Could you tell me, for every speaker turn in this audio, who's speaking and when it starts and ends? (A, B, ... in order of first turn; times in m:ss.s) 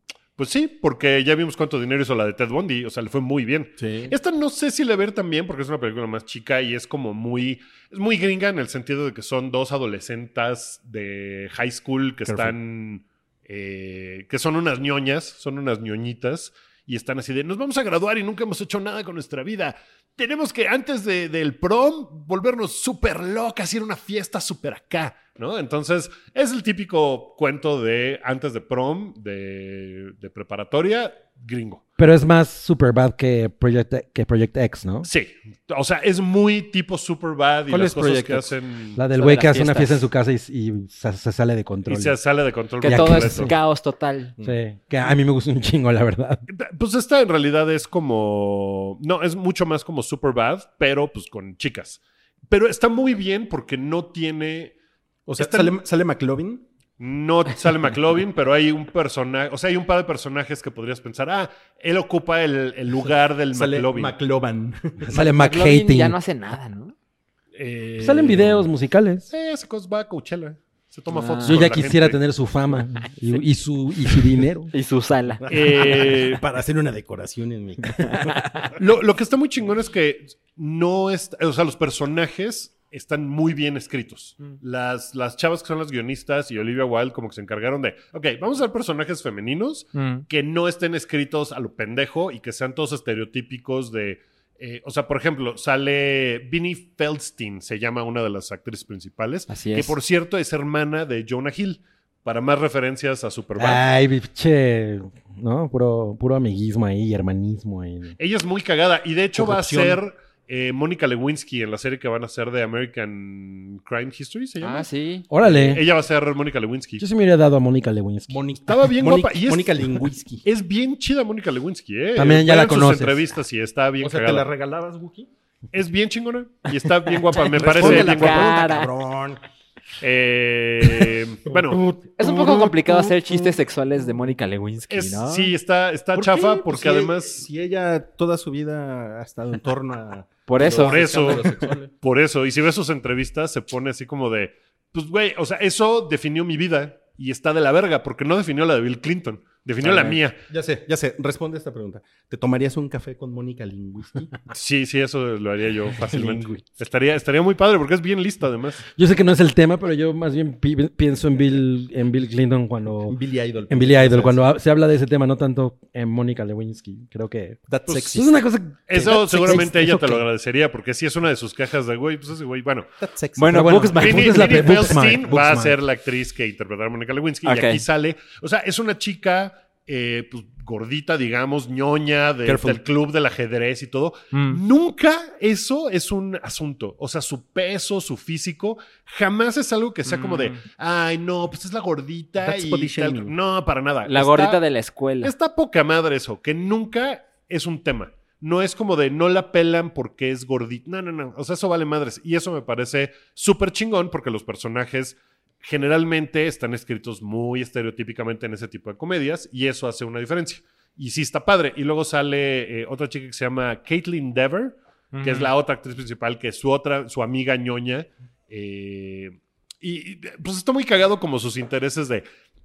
0:00.4-0:31.8 A
0:03.8-0:04.1 B
0:12.3-0:12.5 B
0:32.0-0:35.1 C
0:35.0-0:39.0 A
0:37.7-0:38.5 B
0:39.0-0:42.2 C
0:39.1-0:40.1 D
0:41.9-0:43.5 A
0:42.8-0:44.3 D
0:42.8-0:43.6 C
0:44.4-0:46.4 C
0:46.5-0:54.7 A
0:55.3-0:56.6 B
0:55.4-0:55.8 A
0:57.0-1:04.1 A
1:03.5-1:05.1 B
1:05.0-1:06.2 C
1:05.1-1:07.0 D
1:07.6-1:08.7 A
1:08.0-1:09.3 C
1:09.3-1:12.2 A
1:11.1-1:11.6 D
1:11.4-1:14.7 C
1:14.7-1:15.4 D
1:15.4-1:18.4 B
1:15.5-1:16.4 A
1:18.0-1:18.6 D
1:18.8-1:43.8 A
1:29.9-1:30.2 D
1:39.5-1:40.0 D
1:43.6-1:48.2 C
1:48.2-1:54.9 A
1:49.4-1:50.0 B
1:54.6-1:55.3 D
1:55.3-1:55.8 C
1:55.4-1:57.0 A
1:57.0-1:58.4 C
1:58.3-2:00.4 B
1:58.7-2:04.5 A
2:02.2-2:03.2 C
2:04.0-2:05.3 B
2:05.7-2:08.6 A
2:07.3-2:08.9 D
2:07.5-2:09.4 B
2:10.0-2:11.8 A
2:11.8-2:12.7 B
2:12.2-2:15.5 D
2:14.9-2:17.4 A
2:16.1-2:21.9 B
2:20.5-2:21.4 D
2:20.6-2:30.4 A
2:29.8-2:34.4 B
2:34.5-2:38.8 A
2:36.1-2:36.6 B
2:38.9-2:43.2 C
2:43.1-2:44.4 B
2:43.7-2:50.3 C
2:47.7-2:48.4 B
2:48.9-2:52.9 A
2:53.0-2:53.7 B
2:53.4-2:54.9 D
2:53.5-2:55.8 C
2:54.0-3:14.6 A
2:57.4-2:57.8 D
3:02.4-3:02.8 C
3:04.3-3:04.6 D
3:10.1-3:10.6 D
3:12.4-3:13.3 B
3:14.1-3:15.3 D
3:15.2-3:42.2 A
3:35.1-3:35.5 D